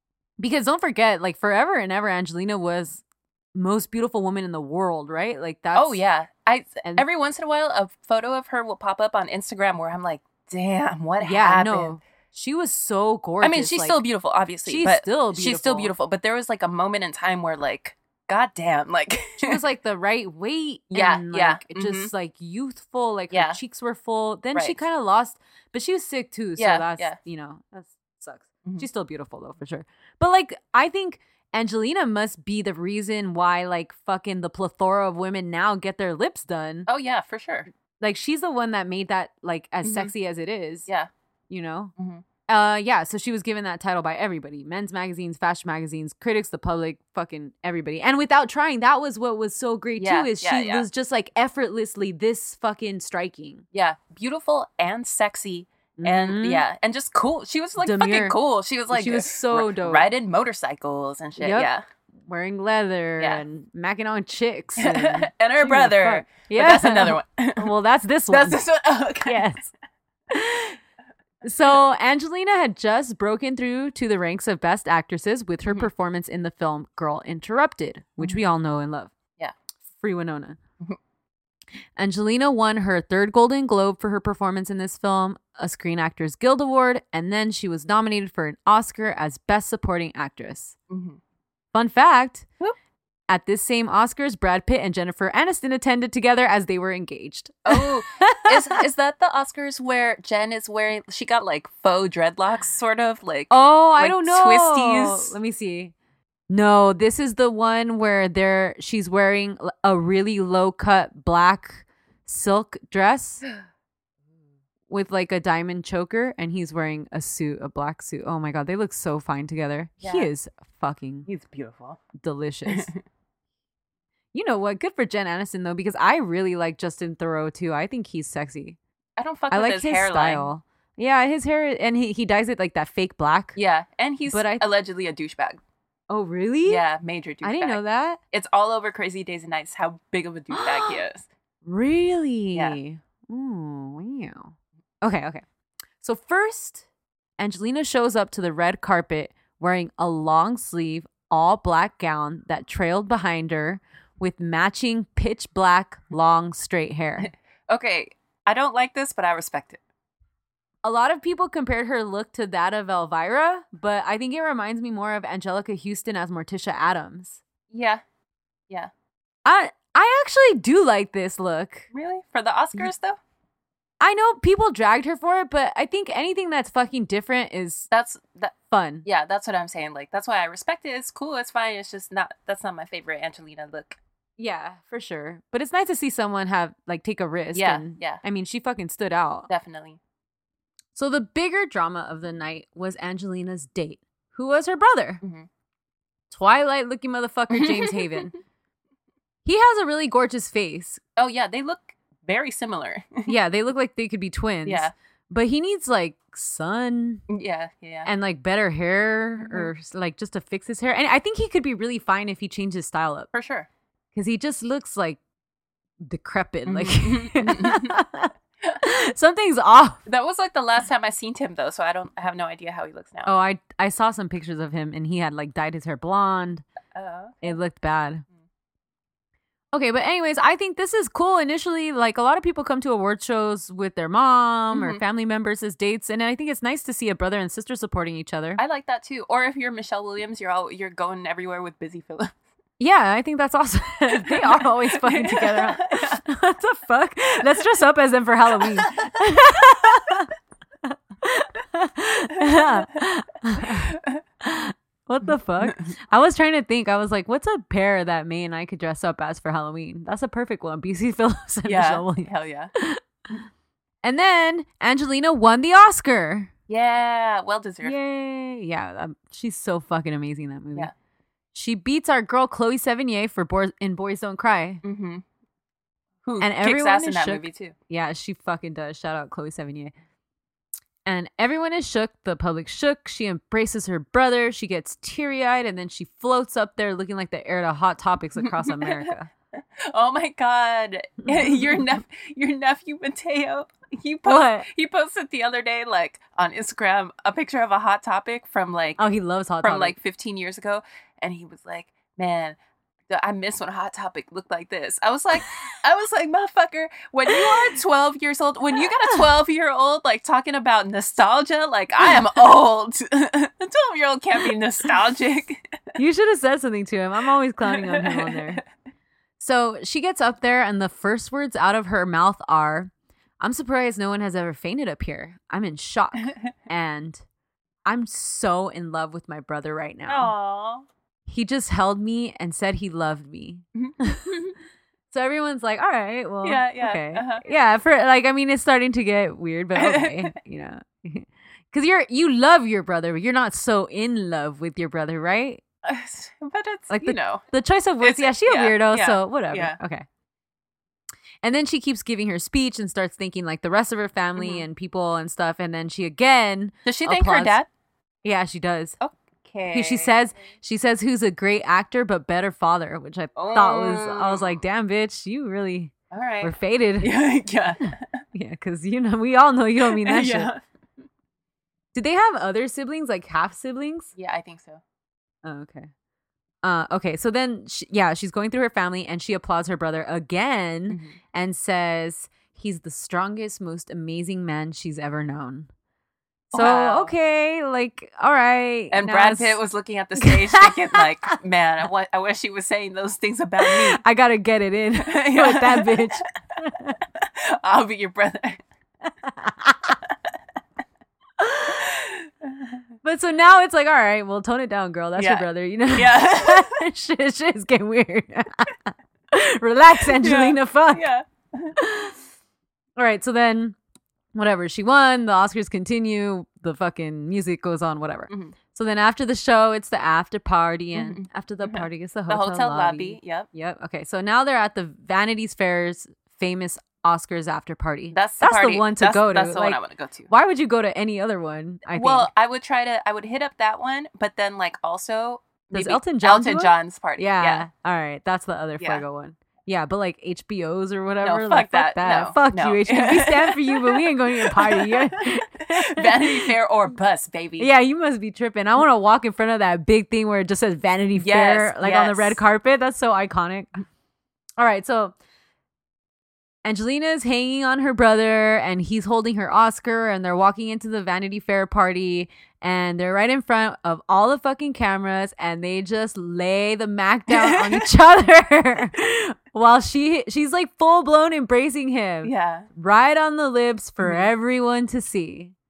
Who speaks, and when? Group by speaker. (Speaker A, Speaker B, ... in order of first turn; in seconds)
Speaker A: 0.4-3.0, 3.5-6.0, 11.2-14.0, 14.7-15.9, 19.4-36.9, 38.0-40.9, 41.5-41.9, 42.5-53.6, 56.0-56.6, 57.8-58.4, 58.9-60.0, 61.4-61.7, 62.2-68.6, 69.2-69.7, 70.3-70.8, 71.4-79.1, 80.0-80.6, 82.0-90.8, 91.7-92.5, 93.3-98.8, 103.5-105.9, 106.5-113.4, 114.9-121.3, 122.2-122.9, 124.3-128.8, 129.5-133.6, 134.3-134.7, 136.1-136.8, 137.4-138.2, 140.5-141.0, 141.6-145.4, 146.0-146.8, 147.4-157.3, 160.8-167.4, 169.4-171.9, 174.0-177.9, 178.7-179.1, 184.4-189.5, 190.9-195.2, 196.3-198.3, 199.4-201.0, 203.3-207.2, 208.0-213.3, 214.1-215.2, 216.0-220.1, 223.2-226.6, 227.4-228.2, 229.7-238.6, 242.8-250.3, 250.8-263.0, 264.0-266.5, 267.8-270.9, 271.5-274.8, 276.4-279.9, 281.1-289.3, 291.3-291.8, 294.2-294.7, 299.0-299.9, 307.3-307.7, 315.9-318.6, 319.4-327.2, 327.9-330.3, 331.3-334.4, 335.1-345.6, 346.9-350.1, 351.4-357.6, 358.2-358.9, 359.7-367.1, 367.8-370.5, 371.9-374.1, 375.4-375.9, 376.6-385.7, 386.5-389.6, 390.2-391.0, 393.6-397.0, 399.3-399.9, 401.4-401.9, 403.0-408.8, 409.3-411.1, 411.8-412.2, 413.0-413.8, 414.3-429.8, 430.3-432.3, 435.7-446.5, 447.6-453.8, 454.6-455.1, 456.6-475.5
Speaker B: 5.7-11.9, 13.4-19.6, 20.9-22.1, 23.3-23.6, 26.6-27.2, 36.9-37.7, 39.8-40.1, 42.0-42.2, 50.0-50.8, 53.7-61.8, 63.2-63.4, 64.8-67.7, 68.3-69.4, 90.9-91.2, 97.7-105.3, 120.0-120.3, 121.3-122.0, 122.7-123.0, 129.2-130.4, 133.6-135.6, 136.7-137.8, 138.3-141.3, 157.7-159.8, 167.7-168.0, 171.9-173.2, 177.9-184.0, 187.5-188.2, 189.5-190.0, 195.2-195.5, 197.5-198.2, 201.2-203.3, 204.7-204.9, 207.3-208.1, 209.4-209.7, 213.3-213.7, 216.7-218.0, 220.1-223.3, 226.9-227.6, 234.7-235.0, 238.6-242.3, 244.2-246.2, 248.6-248.9, 253.9-254.2, 261.6-262.7, 266.7-267.9, 274.8-275.2, 276.2-277.7, 288.4-289.1, 289.8-299.0, 299.6-302.6, 303.1-315.6, 317.6-318.6, 330.1-330.8, 333.8-334.5, 336.4-337.4, 339.7-340.3, 345.8-347.4, 348.0-349.8, 354.4-354.6, 356.8-357.6, 359.0-360.1, 363.4-364.5, 366.1-368.1, 369.9-370.6, 374.1-374.8, 380.9-381.2, 386.5-387.1, 388.9-394.0, 395.0-396.1, 397.2-398.6, 402.4-402.8, 405.2-406.8, 410.1-411.8, 418.3-418.6, 420.9-423.5, 428.1-430.3, 431.9-437.6, 441.2-447.7, 451.2-452.4, 467.3-467.9, 472.2-472.7, 474.0-474.3